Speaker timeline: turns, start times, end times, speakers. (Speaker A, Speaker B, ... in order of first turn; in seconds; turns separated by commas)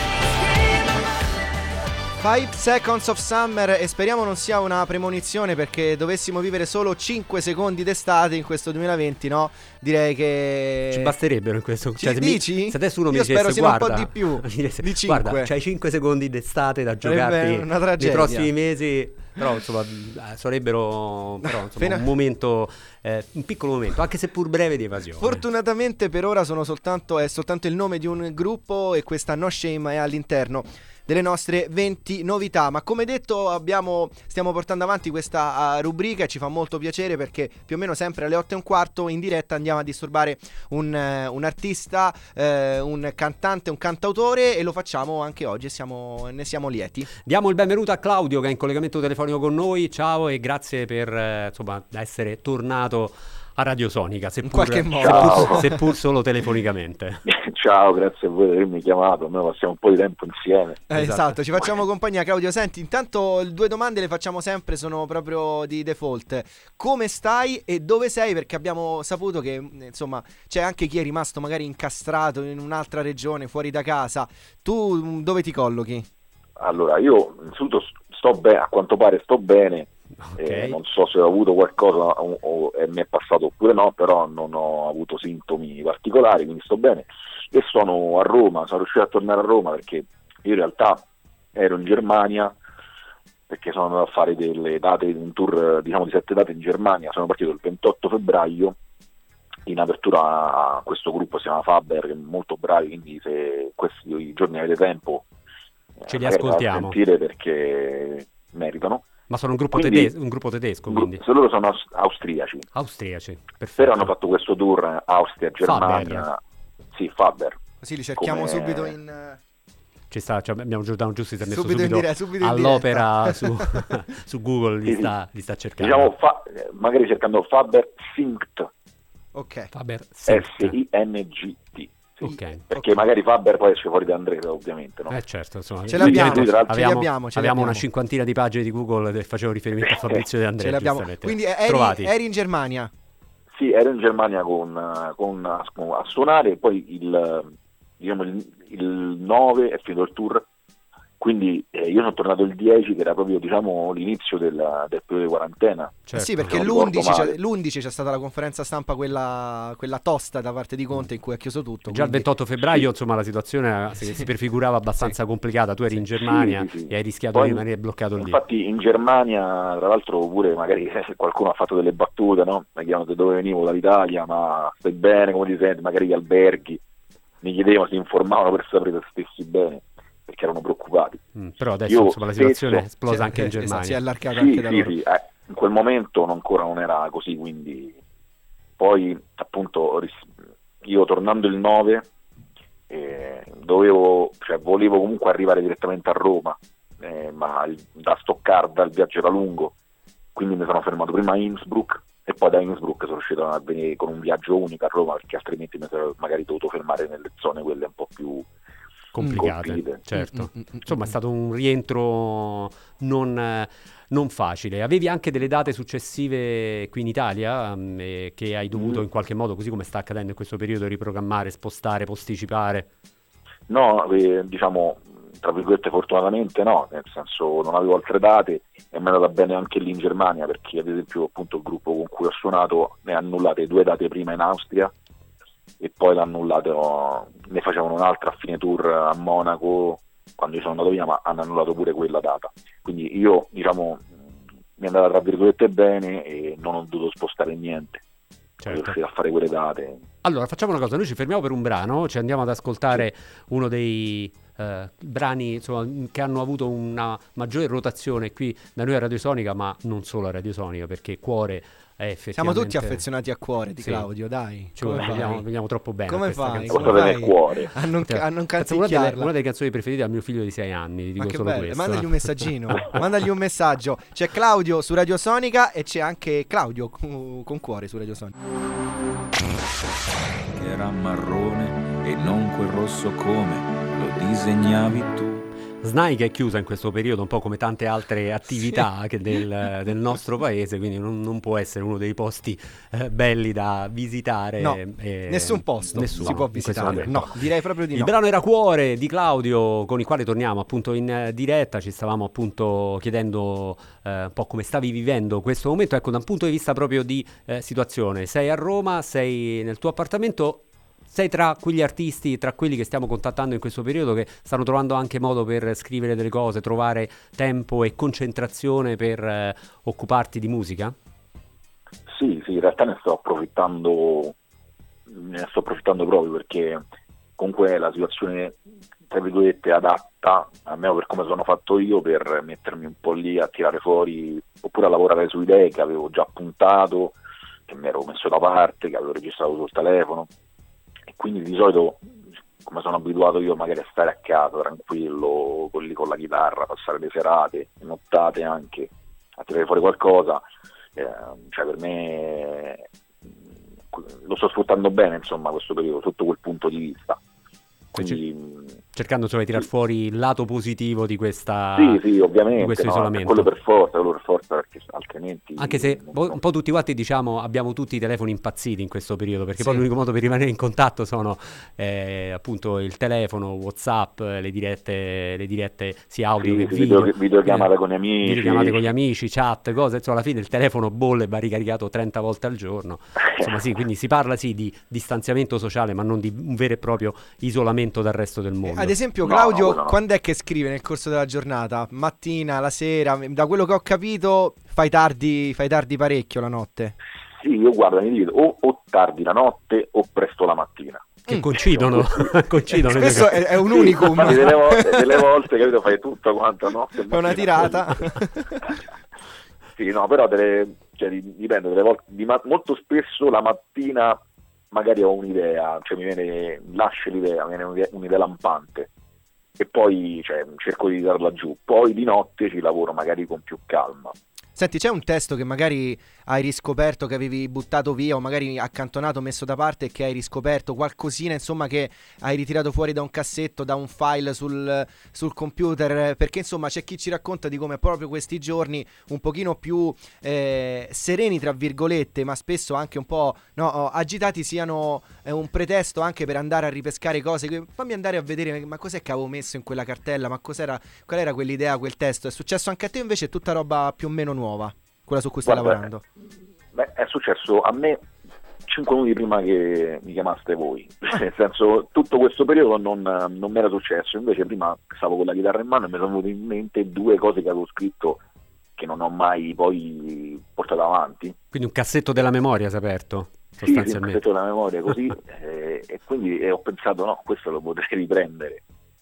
Speaker A: 2.2-11.2, Speaker B: 10.9-25.4, Speaker A: 12.0-15.5, Speaker A: 17.0-18.5, Speaker A: 21.4-22.1, Speaker A: 25.2-47.1, Speaker B: 47.3-57.2, Speaker A: 54.4-55.8, Speaker C: 55.0-55.7, Speaker C: 57.3-60.9, Speaker A: 60.9-76.1, Speaker B: 61.0-61.4, Speaker C: 76.6-91.0, Speaker B: 80.2-80.8, Speaker C: 91.5-92.5, Speaker C: 93.5-98.8, Speaker C: 99.7-105.3, Speaker C: 106.0-109.0, Speaker B: 106.1-107.0, Speaker B: 109.3-111.2, Speaker C: 109.7-110.1, Speaker C: 110.9-112.7, Speaker B: 112.7-114.1, Speaker C: 113.8-116.4, Speaker B: 115.6-116.3, Speaker C: 116.9-117.6, Speaker A: 117.8-119.4, Speaker C: 118.2-119.0, Speaker B: 120.1-126.1, Speaker A: 121.5-123.8, Speaker C: 124.8-125.2, Speaker C: 125.8-128.7, Speaker A: 129.3-129.7, Speaker B: 129.7-130.8, Speaker C: 130.3-135.2, Speaker B: 132.2-133.1, Speaker B: 135.1-142.1, Speaker A: 135.9-137.8, Speaker C: 135.9-136.8, Speaker C: 139.9-140.3, Speaker A: 140.6-142.9, Speaker C: 143.6-150.5, Speaker C: 151.2-157.4, Speaker B: 156.1-156.7, Speaker A: 156.1-162.3, Speaker B: 161.9-168.4, Speaker C: 162.6-162.9, Speaker C: 166.1-176.8, Speaker C: 177.4-181.2, Speaker B: 181.3-184.0, Speaker C: 181.8-182.9, Speaker A: 183.1-184.9, Speaker C: 184.3-188.0, Speaker C: 188.8-190.3, Speaker C: 190.8-192.1, Speaker C: 192.9-199.8, Speaker C: 200.3-208.5, Speaker B: 209.1-222.9, Speaker C: 209.2-210.0, Speaker A: 210.2-210.9, Speaker C: 218.7-219.0, Speaker C: 223.7-234.9, Speaker C: 235.8-244.1, Speaker C: 244.8-248.0, Speaker B: 248.6-249.0, Speaker C: 248.7-250.0, Speaker B: 250.2-263.1, Speaker A: 262.4-265.5, Speaker B: 263.8-264.1, Speaker B: 264.8-272.9, Speaker A: 266.1-269.3, Speaker C: 266.7-267.7, Speaker A: 271.2-278.3, Speaker D: 280.5-285.5, Speaker B: 285.8-297.3, Speaker A: 294.6-298.1, Speaker B: 297.9-320.9, Speaker C: 322.1-324.4, Speaker C: 325.1-326.8, Speaker C: 327.4-328.6, Speaker C: 329.1-340.3, Speaker C: 341.1-342.1, Speaker C: 342.6-350.4, Speaker C: 351.0-352.9, Speaker C: 353.9-357.2, Speaker B: 357.9-358.2, Speaker C: 358.0-358.8, Speaker B: 358.9-363.5, Speaker C: 361.8-366.4, Speaker B: 365.6-389.0, Speaker C: 376.4-378.9, Speaker A: 388.6-396.9, Speaker C: 389.2-390.0, Speaker C: 397.4-402.3, Speaker A: 401.3-401.5, Speaker B: 401.3-404.4, Speaker A: 402.7-405.2, Speaker C: 403.6-407.9, Speaker A: 407.1-408.8, Speaker C: 409.8-414.2, Speaker C: 414.7-418.9, Speaker C: 419.6-424.1, Speaker A: 424.6-456.0, Speaker C: 455.5-455.9, Speaker C: 456.7-458.0, Speaker C: 458.7-468.2, Speaker C: 468.8-471.4, Speaker B: 471.5-474.2, Speaker C: 473.6-478.6